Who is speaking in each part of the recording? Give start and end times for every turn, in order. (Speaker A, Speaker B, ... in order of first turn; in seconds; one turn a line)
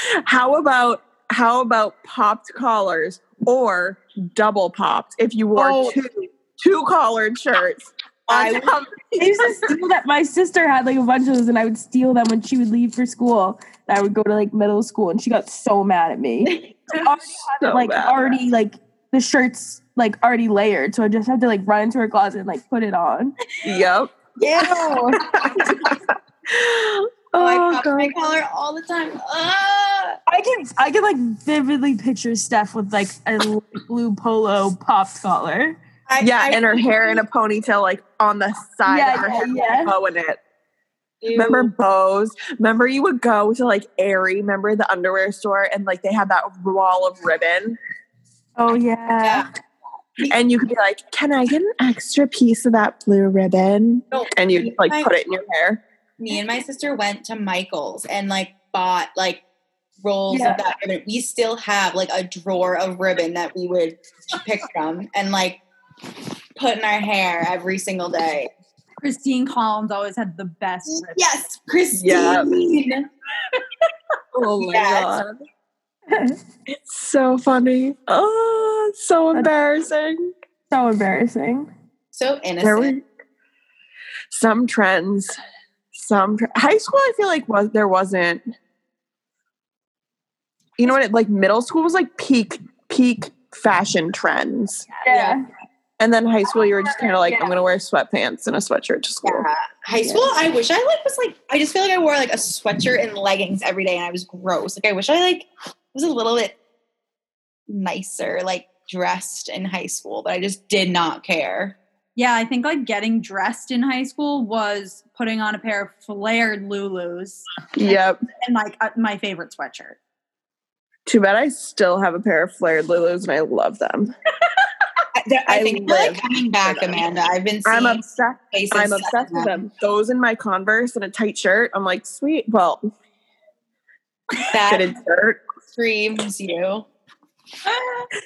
Speaker A: 0.2-9.3
Speaker B: 5.6-5.9
Speaker B: 8.3-8.7
Speaker C: 9.2-23.4
Speaker A: 17.6-18.4
Speaker A: 23.6-28.2
Speaker B: 24.4-25.1
Speaker C: 24.8-25.1
Speaker B: 27.3-30.2
Speaker C: 30.3-35.8
Speaker B: 36.1-37.2
Speaker A: 36.2-40.4
Speaker C: 38.9-39.9
Speaker B: 41.2-41.7
Speaker A: 41.3-47.8
Speaker C: 48.6-49.4
Speaker B: 49.2-49.5
Speaker A: 50.2-55.8
Speaker B: 54.1-55.1
Speaker B: 56.2-59.4
Speaker B: 60.0-65.6
Speaker C: 60.3-60.6
Speaker B: 66.5-68.5
Speaker D: 69.0-71.5
Speaker B: 70.9-73.1
Speaker A: 71.9-72.5
Speaker A: 74.3-75.4
Speaker B: 74.6-75.1
Speaker C: 76.1-76.4
Speaker A: 76.7-80.3
Speaker C: 80.7-81.7
Speaker B: 82.1-82.9
Speaker A: 82.6-83.0
Speaker A: 84.3-85.3
Speaker A: 85.9-88.4
Speaker A: 90.8-94.9
Speaker B: 95.0-95.4
Speaker C: 95.0-95.4
Speaker A: 96.0-99.5
Speaker C: 96.8-97.5
Speaker B: 99.2-106.6
Speaker C: 100.0-100.3
Speaker B: 107.7-111.8
Speaker D: 112.1-120.0
Speaker A: 117.8-118.2
Speaker A: 121.0-124.1
Speaker B: 125.1-129.6
Speaker A: 125.5-127.0
Speaker A: 127.6-132.8
Speaker B: 134.5-134.9
Speaker A: 134.7-135.4
Speaker B: 135.7-136.9
Speaker D: 137.7-138.1